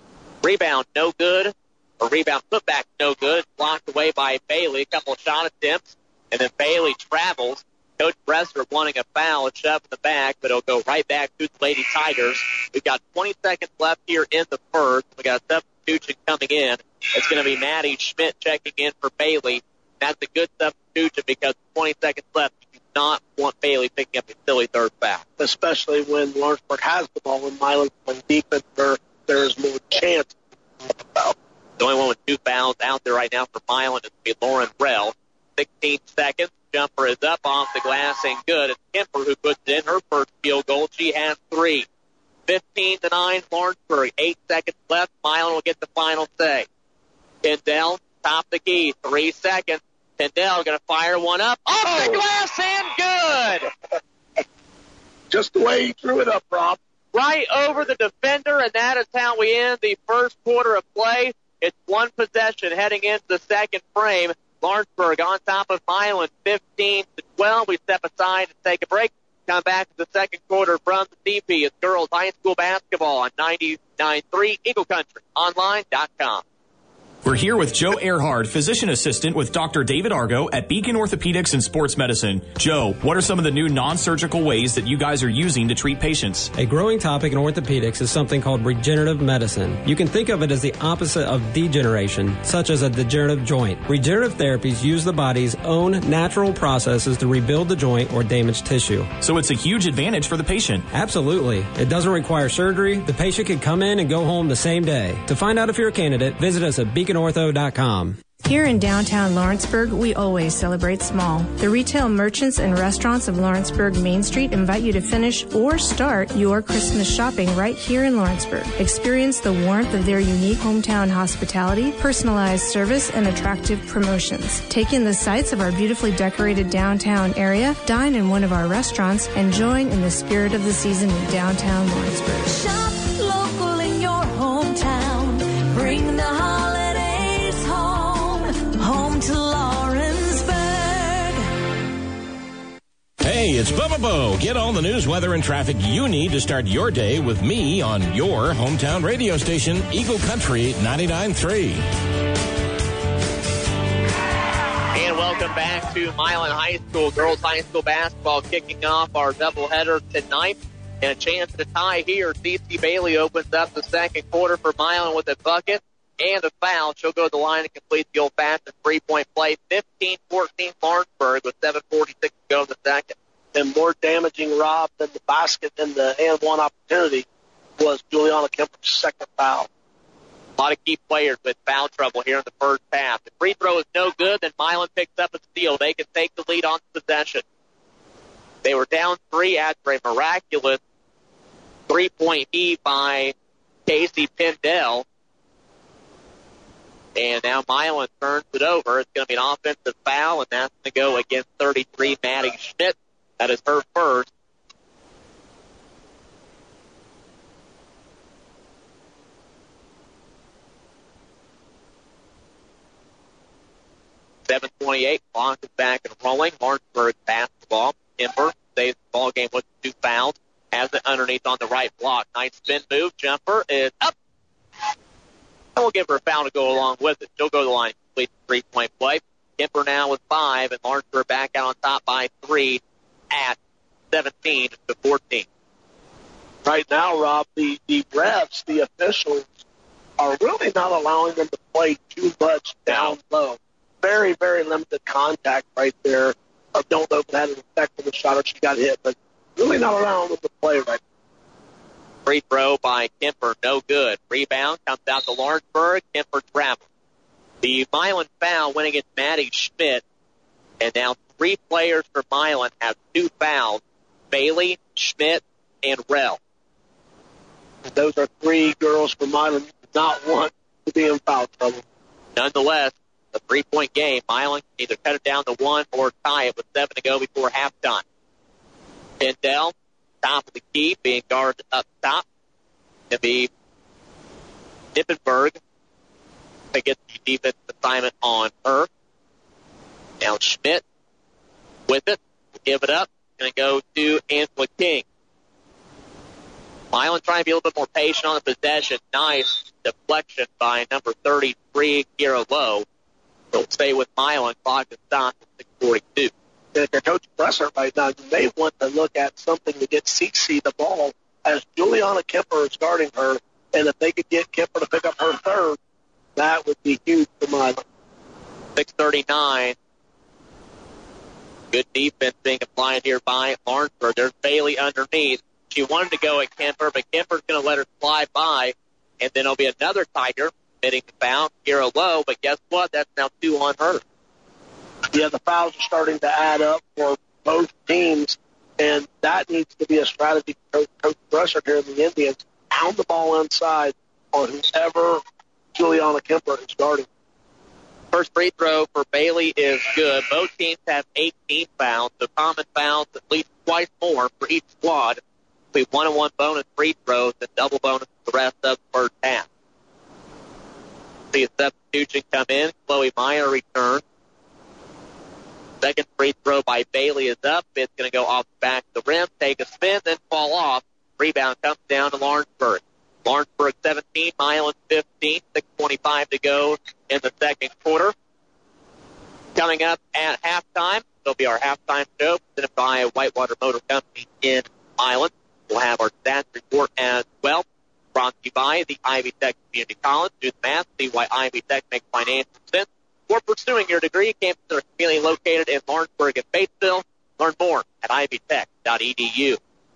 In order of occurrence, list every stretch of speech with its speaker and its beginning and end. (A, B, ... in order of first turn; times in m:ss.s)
0:00.4-0:25.2 A
0:25.4-0:31.4 B
0:31.8-0:41.9 A
0:42.5-0:46.7 A
0:47.4-0:53.7 A
0:51.9-0:52.2 B
0:55.3-0:56.8 B
0:57.1-1:16.4 A
1:17.2-1:26.5 C
1:26.5-1:39.1 D
1:39.2-1:40.8 C
1:40.9-1:48.2 D
1:48.4-2:12.6 E
2:12.6-2:21.4 F
2:23.2-2:31.8 G
2:34.9-2:53.2 A
2:53.6-2:57.3 B
2:57.8-2:59.7 B
3:00.6-3:07.4 A
3:08.6-3:10.8 A
3:11.9-3:13.3 A
3:13.9-3:15.0 A
3:17.2-3:24.3 A
3:34.5-3:44.1 A
3:45.8-3:52.8 A
3:53.3-3:53.6 A
3:54.1-3:55.5 A
3:56.6-3:59.6 B
4:00.2-4:11.0 B
4:02.9-4:03.1 A
4:12.3-4:16.8 A
4:17.6-4:20.0 A
4:20.8-4:26.4 A
4:27.9-4:31.8 B
4:32.4-4:38.0 A
4:39.2-4:42.2 A
4:43.1-4:43.5 A
4:45.0-4:45.6 A
4:46.7-4:48.9 A
4:50.2-4:50.8 A
4:51.9-4:55.0 A
4:56.9-5:02.8 A
5:03.5-5:06.3 A
5:06.8-5:15.8 B
5:16.4-5:17.8 B
5:18.8-5:19.8 A
5:21.7-5:34.0 A
5:35.1-5:45.2 B
5:45.8-5:47.1 B
5:48.1-5:55.2 A
5:55.7-5:59.5 A
6:01.3-6:04.0 A
6:05.8-6:18.1 A
6:19.6-6:39.6 A